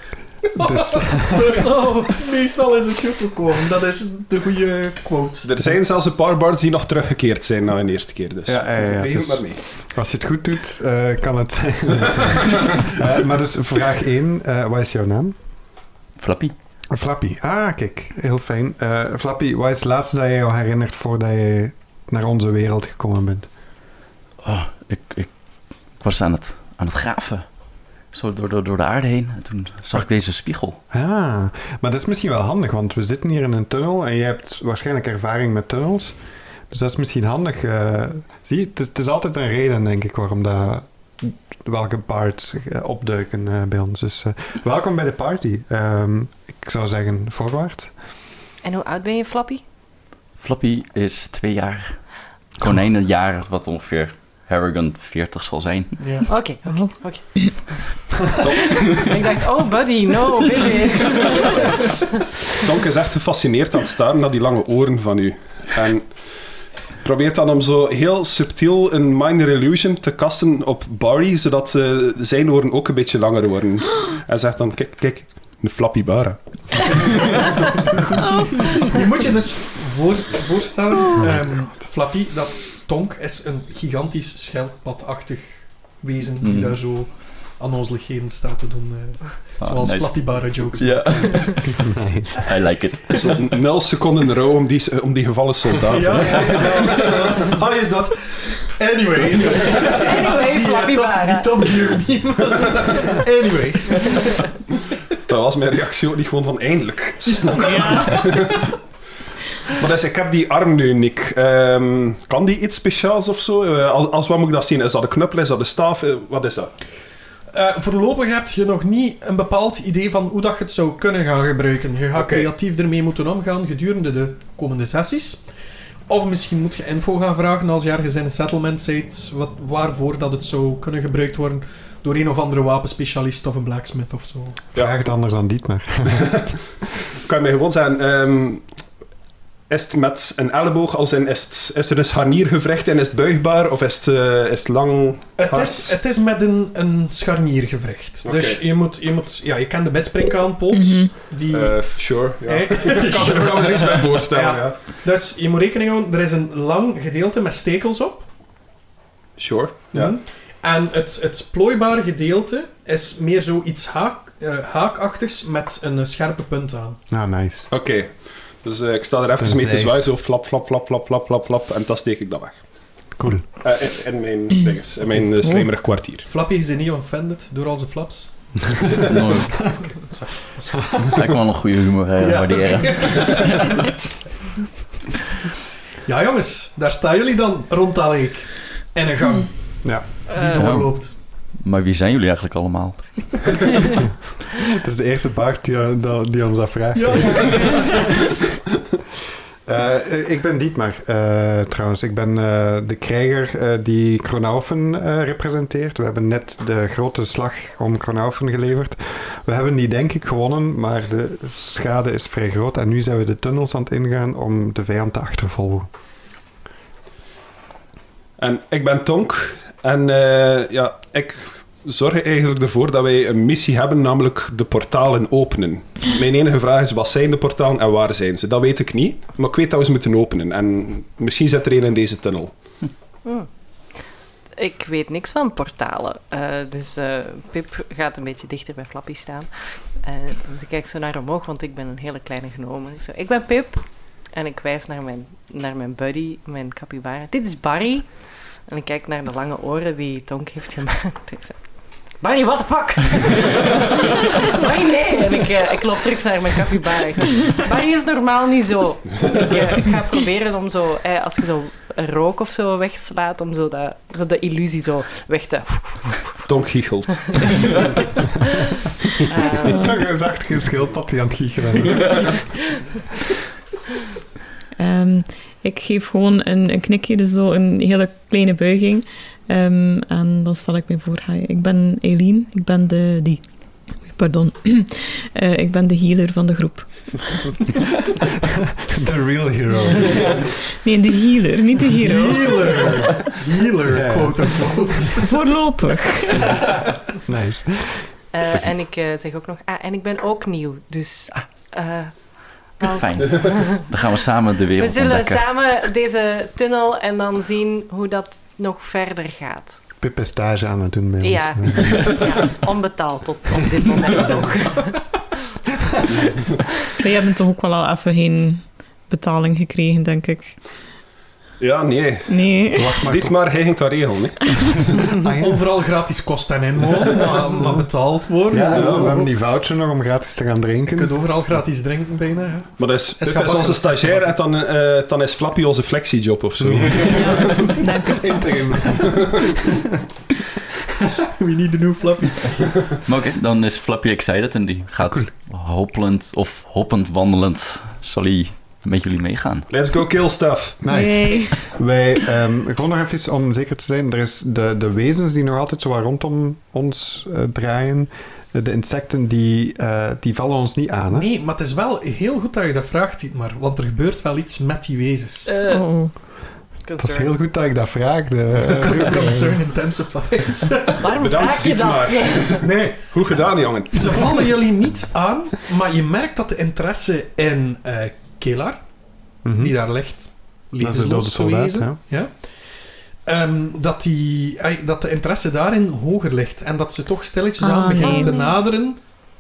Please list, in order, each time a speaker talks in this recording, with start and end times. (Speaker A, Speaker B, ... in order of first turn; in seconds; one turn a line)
Speaker A: 0.5-5.5
Speaker B: 0.6-1.6
Speaker C: 1.4-2.2
Speaker D: 5.4-9.6
Speaker B: 8.4-15.4
Speaker E: 16.2-16.5
Speaker B: 16.9-23.5
Speaker E: 24.4-25.3
Speaker E: 26.0-27.4
Speaker E: 28.1-30.8
Speaker B: 30.9-36.2
Speaker B: 36.7-47.9
Speaker C: 48.6-49.6
Speaker E: 50.4-52.0
Speaker E: 52.6-56.0
Speaker A: 56.0-56.3
Speaker C: 56.3-57.8
Speaker F: 56.7-57.5
Speaker D: 58.4-59.1
Speaker C: 58.4-61.8
Speaker D: 62.6-66.3
Speaker D: 67.0-78.0
Speaker A: 77.7-91.4
Speaker B: 81.2-81.4
Speaker E: 86.4-86.8
Speaker E: 89.6-91.8
Speaker B: 91.7-92.4
Speaker E: 92.3-93.4
Speaker D: 93.1-97.4
Speaker A: 95.9-104.4
Speaker C: 99.7-101.7
Speaker D: 105.3-108.7
Speaker A: 107.4-108.4
Speaker F: 107.6-108.4
Speaker D: 109.7-116.7
Speaker A: 117.5-125.4
Speaker D: 122.2-122.5
Speaker A: 126.1-134.6
Speaker B: 134.8-136.5
Speaker D: 136.2-136.6
Speaker D: 137.2-138.7
Speaker D: 139.7-145.9
Speaker A: 145.4-158.3
Speaker D: 148.2-148.6
Speaker F: 150.7-151.1
Speaker D: 151.5-154.8
Speaker D: 159.4-160.1
Speaker A: 159.9-167.0
Speaker B: 167.1-167.7
Speaker D: 167.7-172.6
Speaker B: 169.4-170.1
Speaker B: 173.2-173.5
Speaker D: 173.6-176.3
Speaker A: 176.2-179.1
Speaker E: 179.0-179.7
Speaker A: 179.7-181.3
Speaker E: 181.1-183.7
Speaker A: 182.2-183.9
Speaker A: 186.1-189.5
Speaker C: 190.3-190.7
Speaker A: 190.3-191.1
Speaker E: 190.6-190.9
Speaker E: 191.6-193.6
Speaker B: 194.6-198.1
Speaker A: 196.9-198.2
Speaker B: 199.7-215.9
Speaker D: 218.4-232.5
Speaker C: 234.6-248.1
Speaker C: 248.7-251.6
Speaker C: 252.2-266.4
Speaker D: 266.5-267.9
Speaker C: 267.3-267.6
Speaker C: 269.3-269.9
Speaker B: 269.6-272.3
Speaker F: 274.8-283.4
Speaker F: 284.0-287.7
Speaker B: 288.5-290.5
Speaker F: 290.8-293.0
Speaker A: 292.0-295.3
Speaker B: 293.9-294.5
Speaker F: 295.1-296.6
Speaker B: 297.2-298.1
Speaker C: 298.3-302.2
Speaker C: 302.8-303.9
Speaker E: 302.8-305.4
Speaker C: 304.8-309.8
Speaker B: 310.0-312.4
Speaker C: 311.2-315.0
Speaker D: 316.2-316.5
Speaker F: 317.0-320.6
Speaker D: 321.6-324.9
Speaker F: 322.3-323.0
Speaker B: 322.7-323.4
Speaker B: 325.1-325.6
Speaker A: 325.2-329.3
Speaker B: 327.6-327.9
Speaker B: 328.5-331.2
Speaker D: 328.7-329.1
Speaker A: 330.9-334.3
Speaker D: 332.8-339.3
Speaker B: 336.6-337.7
Speaker F: 337.1-338.8
Speaker B: 338.2-339.5
Speaker A: 341.2-342.7
Speaker E: 343.1-349.7
Speaker D: 349.7-350.8
Speaker B: 350.8-361.3
Speaker F: 350.8-351.6
Speaker A: 361.1-365.5
Speaker C: 365.5-365.9
Speaker F: 365.7-366.2
Speaker C: 366.8-367.4
Speaker B: 367.0-369.6
Speaker A: 368.6-371.1
Speaker C: 371.0-372.6
Speaker D: 371.1-374.4
Speaker A: 372.6-378.8
Speaker B: 379.4-379.7
Speaker A: 379.6-389.0
Speaker B: 380.8-382.0
Speaker F: 387.6-388.5
Speaker C: 388.0-388.5